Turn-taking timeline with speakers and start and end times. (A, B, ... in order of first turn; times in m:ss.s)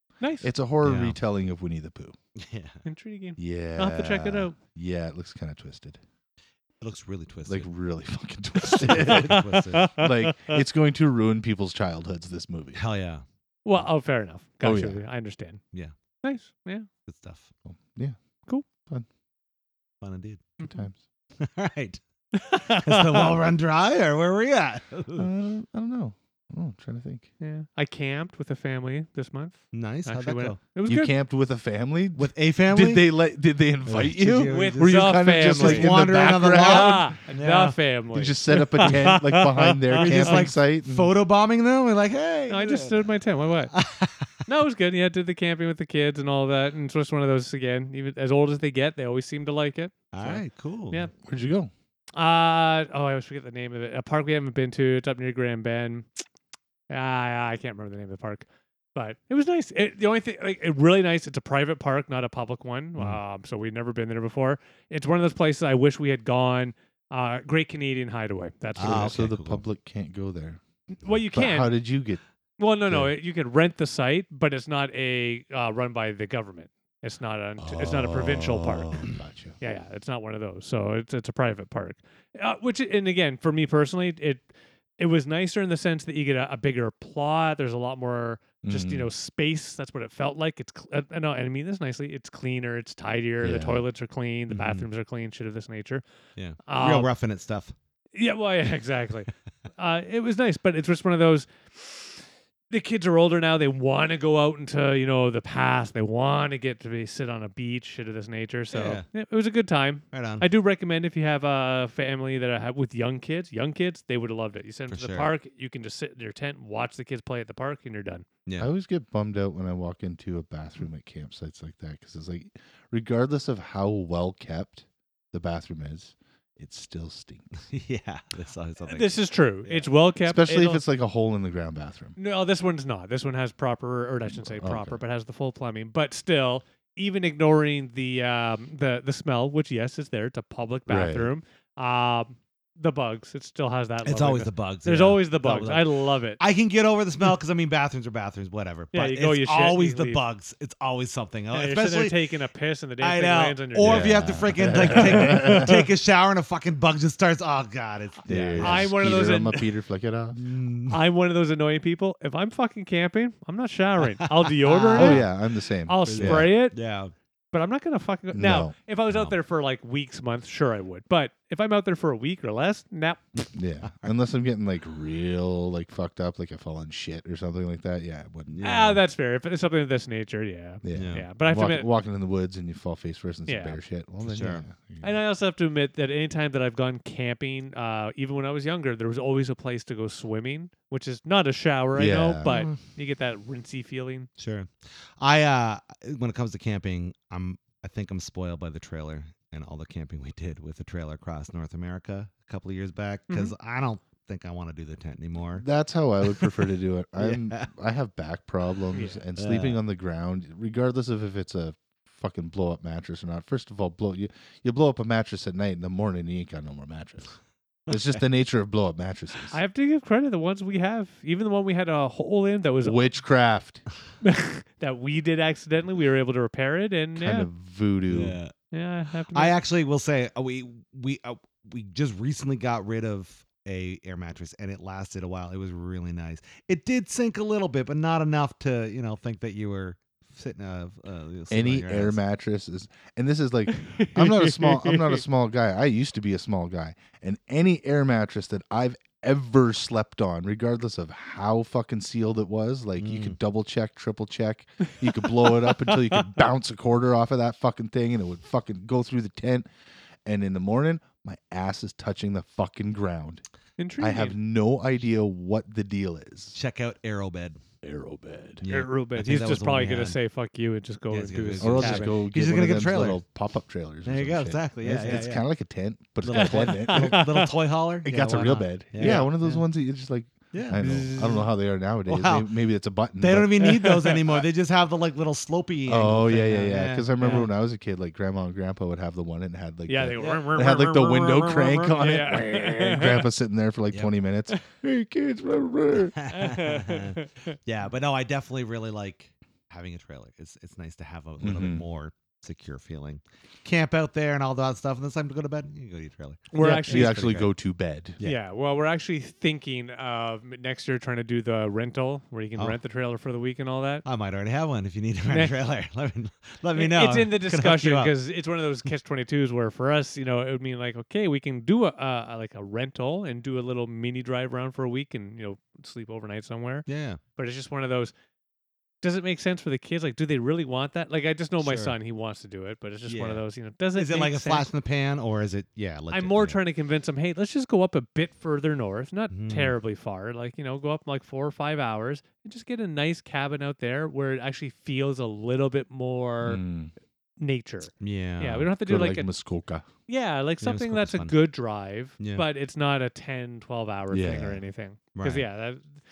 0:00.2-0:00.5 A
0:00.4-0:02.2 B
0:00.8-0:01.2 C
0:02.4-0:02.8 C
0:02.8-0:04.6 A
0:03.4-0:06.0 B
0:06.8-0:07.7 C
0:07.4-0:12.8 B
0:08.6-0:10.6 A
0:08.8-0:09.9 C
0:12.7-0:13.2 C
0:13.6-0:15.6 A
0:14.6-0:15.0 B
0:16.2-0:16.9 A
0:17.0-0:17.5 C
0:17.7-0:18.2 B
0:20.0-0:20.5 C
0:20.6-0:20.8 A
0:20.6-0:21.0 B
0:21.4-0:22.0 C
0:22.3-0:23.4 A
0:22.5-0:25.3 C
0:25.2-0:27.3 B
0:27.4-0:31.1 A
0:29.7-0:30.6 C
0:30.8-0:37.1 B
0:32.1-0:33.1 C
0:33.8-0:35.0 C
0:34.4-0:40.5 A
0:35.5-0:37.8 C
0:38.1-0:41.1 B
0:38.8-0:39.1 C
0:39.9-0:43.0 C
0:42.5-0:43.7 A
0:43.7-0:44.3 C
0:44.5-0:51.1 A
0:50.1-0:51.1 C
0:51.2-0:51.7 B
0:52.1-0:56.1 A
0:56.9-1:09.2 A
1:08.8-1:10.6 B
1:08.8-1:09.6 C
1:11.0-1:11.7 A
1:11.3-1:12.2 B
1:12.6-1:19.0 A
1:17.6-1:19.6 B
1:19.6-1:24.4 A
1:25.0-1:36.0 A
1:28.6-1:29.1 B
1:33.4-1:33.8 B
1:34.5-1:34.8 C
1:36.4-1:37.7 C
1:36.7-1:37.1 A
1:38.1-1:58.3 A
1:48.7-1:49.0 C
1:50.1-1:50.4 C
1:54.9-1:55.3 C
1:58.6-2:07.5 B
2:07.7-2:09.9 C
2:08.9-2:10.8 A
2:10.2-2:12.2 B
2:12.2-2:26.4 A
2:14.3-2:15.0 B
2:20.9-2:21.3 B
2:24.0-2:32.2 C
2:28.9-2:30.2 A
2:31.5-2:34.1 A
2:33.0-2:38.9 C
2:33.8-2:35.7 B
2:34.9-2:35.9 A
2:38.3-2:40.4 B
2:38.6-2:39.6 A
2:40.3-2:41.0 C
2:40.9-2:45.3 A
2:44.2-2:45.3 C
2:44.9-2:46.5 B
2:45.9-2:46.8 A
2:46.0-2:47.1 C
2:47.5-2:53.5 A
2:48.3-2:49.4 B
2:53.5-2:58.7 B
2:53.8-2:54.1 C
2:58.5-2:59.0 C
2:58.6-3:01.9 A
3:00.8-3:05.1 B
3:00.9-3:01.2 C
3:03.5-3:03.8 A
3:04.2-3:04.7 C
3:05.0-3:14.3 A
3:11.9-3:12.6 B
3:12.4-3:12.8 C
3:14.4-3:25.6 C
3:25.6-3:37.4 B
3:26.2-3:26.5 C
3:27.2-3:27.7 C
3:28.9-3:29.2 A
3:29.4-3:29.8 C
3:37.9-3:39.6 B
3:39.5-3:43.1 A
3:42.8-3:43.8 B
3:44.2-3:47.5 A
3:47.2-3:48.4 B
3:48.1-3:48.5 C
3:48.7-3:49.6 A
3:49.3-4:02.2 C
4:01.5-4:19.6 B
4:03.7-4:05.2 A
4:13.0-4:13.4 C
4:15.3-4:16.3 A
4:20.2-4:23.4 B
4:23.8-4:24.3 A
4:24.0-4:26.6 B
4:26.5-4:27.6 C
4:27.8-4:28.6 B
4:28.6-4:30.2 C
4:28.7-4:32.1 A
4:31.1-4:33.2 C
4:31.6-4:37.3 B
4:34.0-4:35.5 C
4:36.2-4:39.6 C
4:36.3-4:37.5 A
4:38.0-4:43.7 B
4:39.0-4:39.3 A
4:40.5-4:41.4 C
4:40.7-4:41.4 A
4:42.1-4:42.5 C
4:43.2-4:47.5 C
4:43.6-4:44.2 A
4:45.9-4:56.2 B
4:49.9-4:50.9 A
4:50.2-4:52.2 C
4:51.9-4:53.3 A
4:56.1-5:07.5 C
4:56.3-4:57.6 A
5:01.4-5:01.8 B
5:06.5-5:07.3 A
5:06.6-5:08.2 B
5:08.2-5:14.0 A
5:14.0-5:18.1 C
5:15.3-5:15.6 A
5:16.8-5:28.1 A
5:26.8-5:27.2 C
5:29.0-5:34.7 A
5:31.6-5:31.9 C
5:33.1-5:33.4 C
5:33.9-5:36.6 C
5:36.1-5:46.6 A
5:39.3-5:39.7 C
5:46.4-5:46.9 B
5:47.4-5:49.3 A
5:48.0-5:48.7 C
5:48.8-5:49.9 B
5:50.1-5:55.9 A
5:50.6-5:51.4 C
5:54.1-5:54.6 B
5:55.1-5:55.4 C